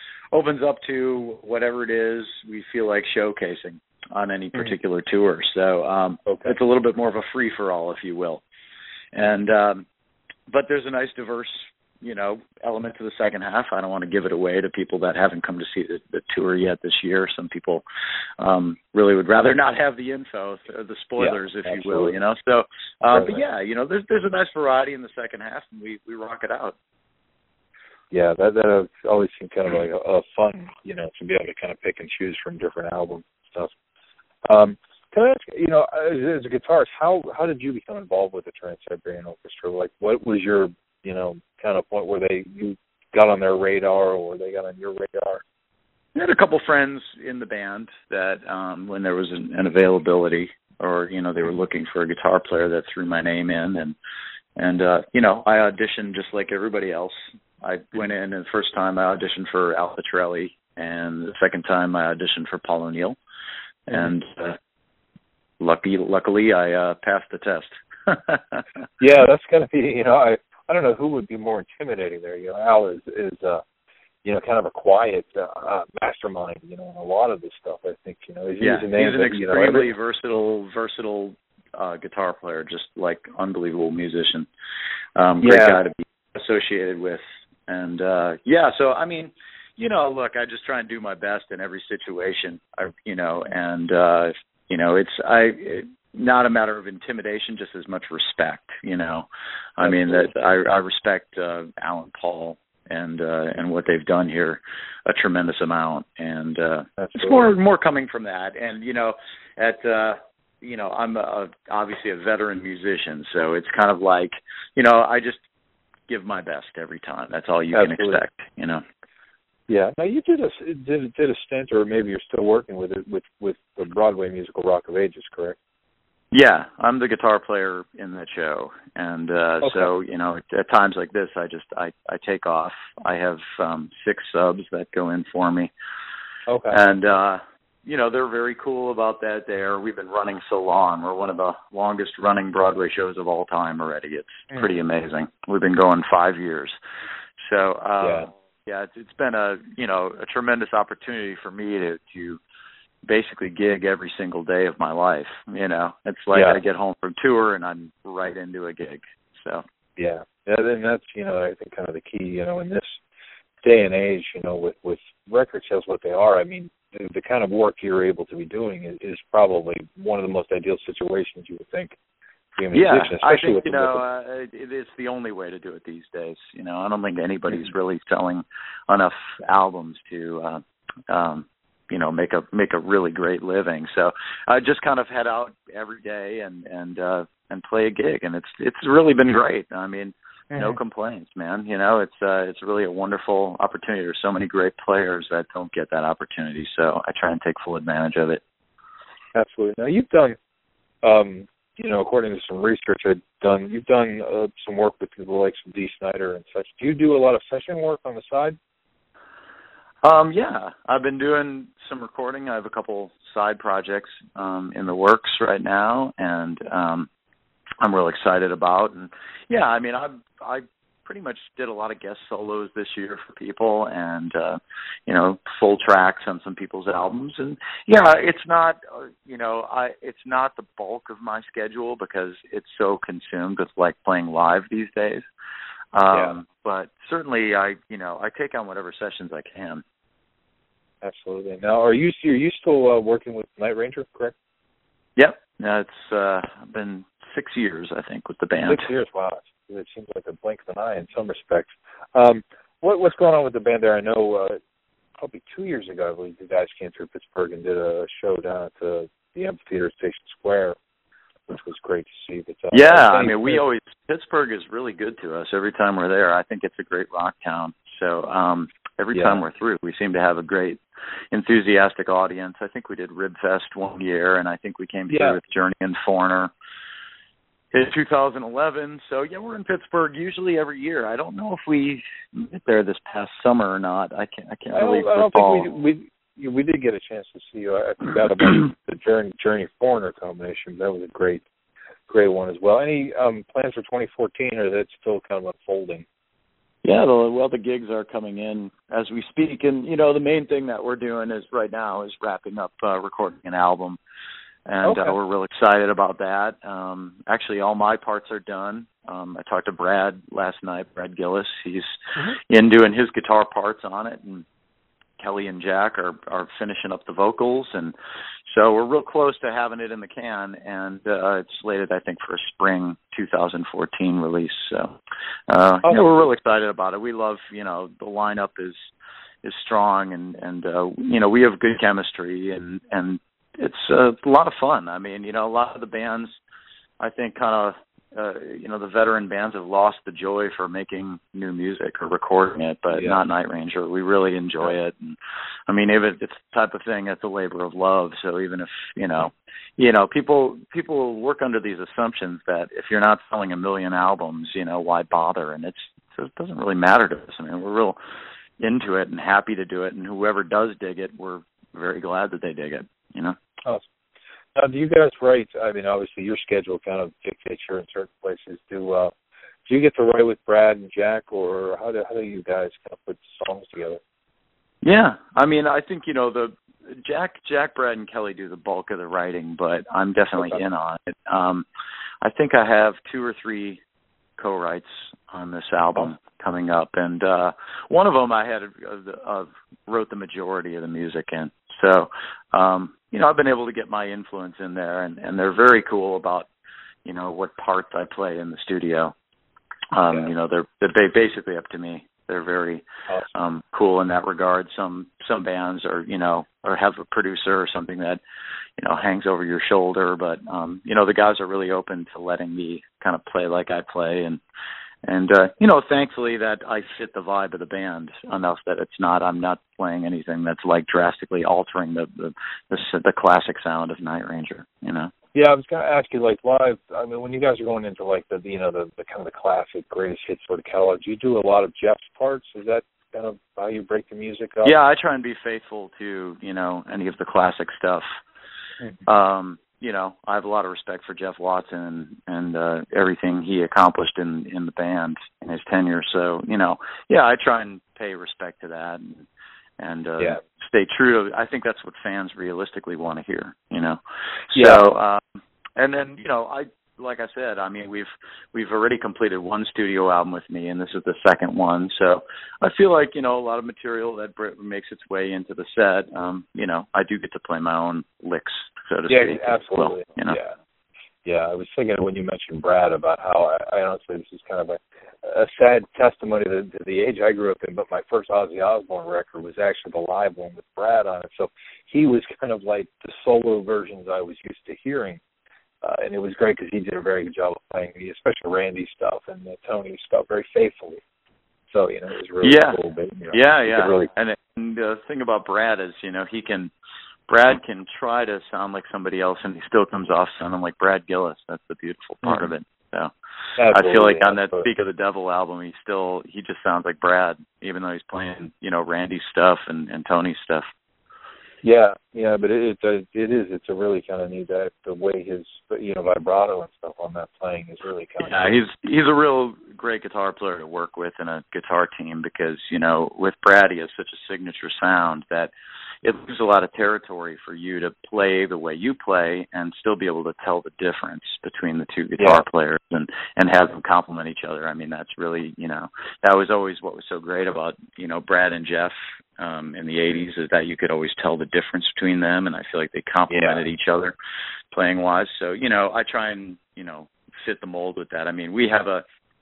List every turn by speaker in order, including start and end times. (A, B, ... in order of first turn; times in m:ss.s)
0:00.3-0:08.4 A
0:06.2-0:06.5 B
0:09.1-0:09.8 A
0:10.5-0:17.8 A
0:18.4-0:26.7 A
0:21.2-0:22.2 B
0:23.1-0:23.4 B
0:28.1-0:33.7 B
0:34.4-0:45.4 B
0:46.2-0:54.0 A
0:54.6-1:03.2 A
1:03.9-1:04.6 A
1:05.6-1:08.6 A
1:09.0-1:13.6 B
1:14.2-1:19.9 B
1:18.6-1:24.5 A
1:25.2-1:55.4 A
1:25.4-1:25.8 B
1:39.8-1:40.3 B
1:47.0-1:47.5 B
1:56.1-1:58.8 A
1:57.7-1:58.2 B
1:59.7-2:05.6 B
2:06.3-2:15.7 A
2:09.6-2:09.9 B
2:16.5-2:16.8 B
2:16.7-2:26.8 A
2:27.4-2:32.4 A
2:28.0-2:28.3 B
2:33.0-2:39.6 A
2:36.3-2:36.6 B
2:40.0-2:43.0 B
2:43.6-2:52.0 B
2:52.6-2:54.0 B
2:52.7-3:18.4 A
3:10.5-3:10.8 B
3:19.3-3:20.4 B
3:21.0-3:28.6 B
3:30.0-3:37.1 A
3:37.8-3:55.2 A
3:55.9-3:59.8 A
4:01.0-4:04.3 B
4:05.2-4:08.9 A
4:08.6-4:14.6 B
4:15.2-4:20.8 B
4:21.5-4:23.6 B
4:22.7-4:30.8 A
4:29.1-4:29.4 B
4:31.3-4:36.5 A
4:35.1-4:35.4 B
4:37.7-4:45.7 A
4:44.7-4:51.4 B
4:52.1-4:56.0 B
4:56.8-5:04.0 A
5:04.7-5:11.9 A
5:04.8-5:05.1 B
5:12.5-5:14.4 A
5:15.2-5:17.9 A
5:18.5-5:24.9 A
5:25.5-5:28.8 A
5:25.8-5:26.2 B
5:29.4-5:36.4 A
5:37.0-5:58.0 A
5:42.9-5:43.2 B
5:58.6-6:03.4 A
6:04.5-6:09.1 B
6:09.6-6:14.0 B
6:14.8-6:21.6 A
6:20.4-6:20.6 B
6:22.2-6:23.8 A
6:24.4-6:36.5 A
6:37.0-6:39.1 A
6:39.9-6:48.2 A
6:48.8-6:54.4 A
6:55.0-7:05.1 A
7:05.3-7:14.7 B
7:14.6-7:18.0 A
7:19.1-7:29.2 A
7:29.8-7:34.0 A
7:34.5-7:50.4 A
7:34.5-7:34.8 B
7:49.1-7:50.5 B
7:51.2-8:05.2 B
8:05.8-8:11.0 B
8:11.7-8:14.1 B
8:12.4-8:12.8 A
8:13.3-8:16.7 A
8:17.3-8:23.1 A
8:23.6-8:24.7 B
8:23.7-8:30.6 A
8:31.6-8:38.6 B
8:38.2-8:45.5 A
8:46.0-9:04.1 A
8:52.2-8:52.4 B
9:03.3-9:03.6 B
9:04.7-9:09.0 A